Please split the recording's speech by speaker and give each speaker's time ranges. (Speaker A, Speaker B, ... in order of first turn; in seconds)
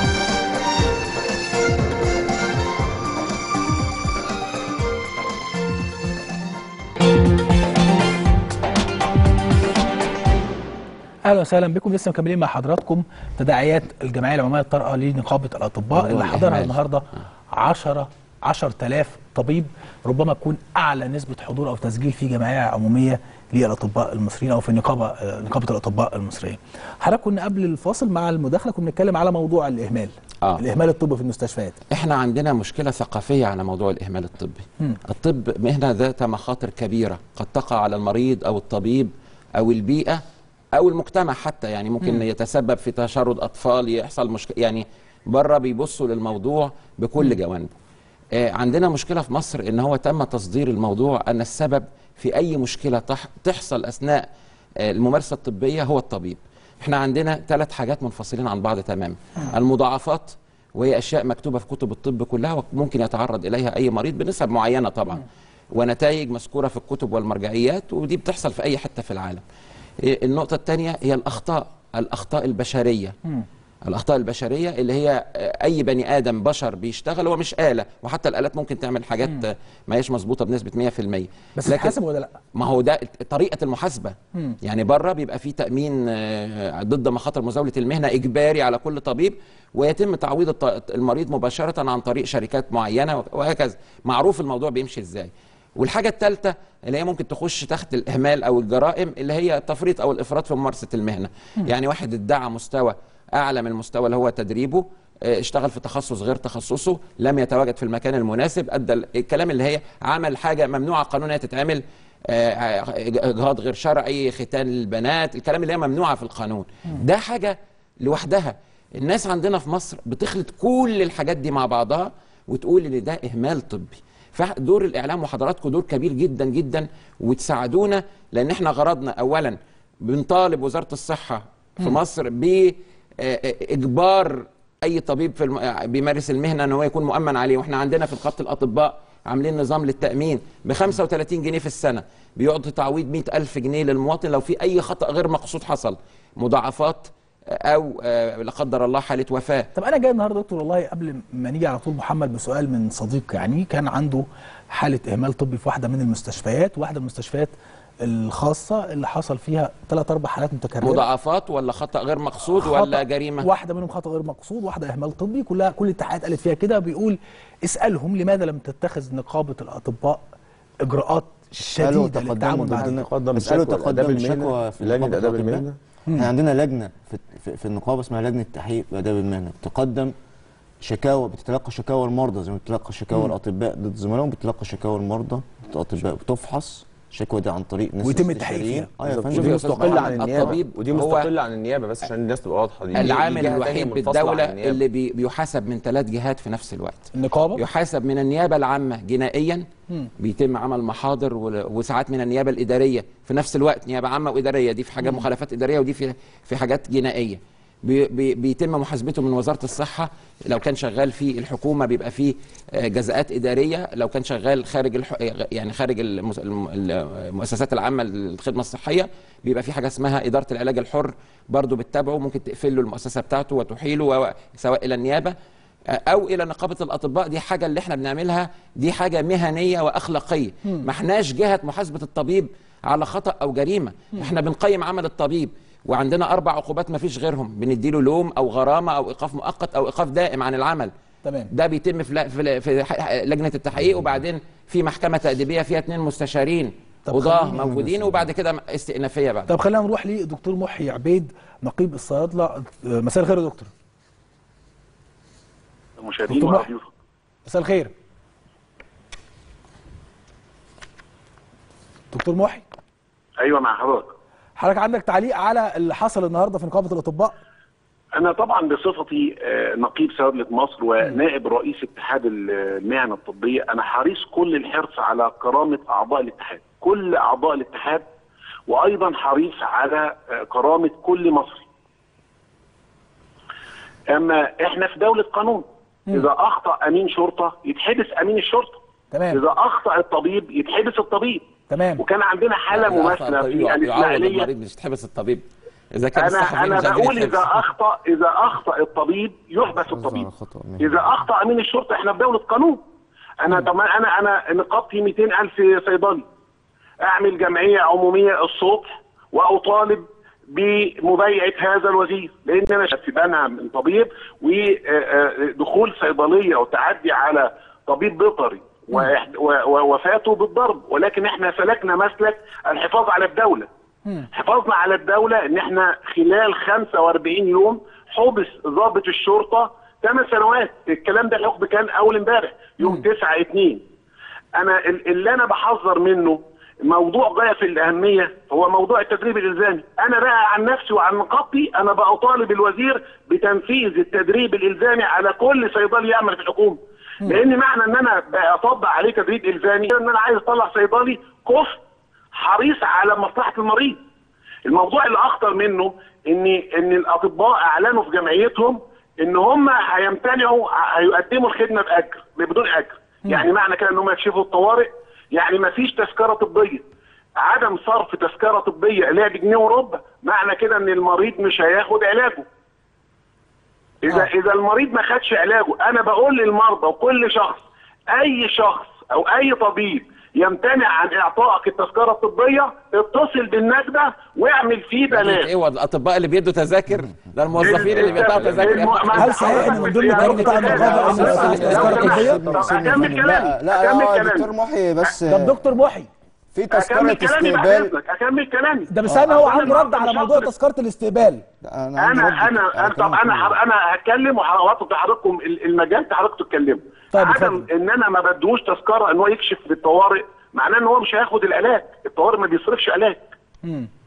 Speaker A: 11.2-31.8, 81.6-82.4, 149.8-161.1, 162.6-170.2, 170.8-172.9, 188.0-188.9, 189.4-190.1, 197.1-197.6, 241.2-241.5, 247.1-247.6, 249.5-253.7, 256.3-256.7, 257.5-257.9, 262.1-262.6, 264.6-267.4, 289.1-289.4, 291.7-292.0, 332.8-333.1, 389.1-392.4, 395.3-396.1, 398.9-401.4, 407.1-407.7, 413.6-413.9
Speaker B: 15.9-16.8, 31.9-40.2, 40.8-47.8, 48.4-54.3, 54.8-69.4, 70.0-73.2, 73.9-82.0, 82.5-149.7, 160.8-163.5, 189.3-191.3, 192.9-199.7, 200.2-225.3, 225.9-240.9, 241.5-249.5, 292.7-297.6, 385.1-392.1
Speaker C: 171.8-180.2, 180.8-190.6, 299.8-301.2, 390.7-395.7, 396.5-397.9, 399.1-399.9, 401.6-403.6
Speaker D: 172.8-175.8, 189.0-194.8, 388.3-388.7, 391.0-393.1
Speaker E: 256.0-256.9, 263.4-264.1, 268.2-278.1, 278.7-281.6, 284.1-288.8, 289.3-291.5, 292.0-294.5, 296.1-300.3, 300.8-302.8, 303.4-306.3, 307.0-323.7, 324.3-333.8, 334.6-351.8, 352.3-354.0, 354.6-366.9, 367.4-372.5, 374.0-385.5, 387.6-394.5, 396.7-400.5, 402.0-413.2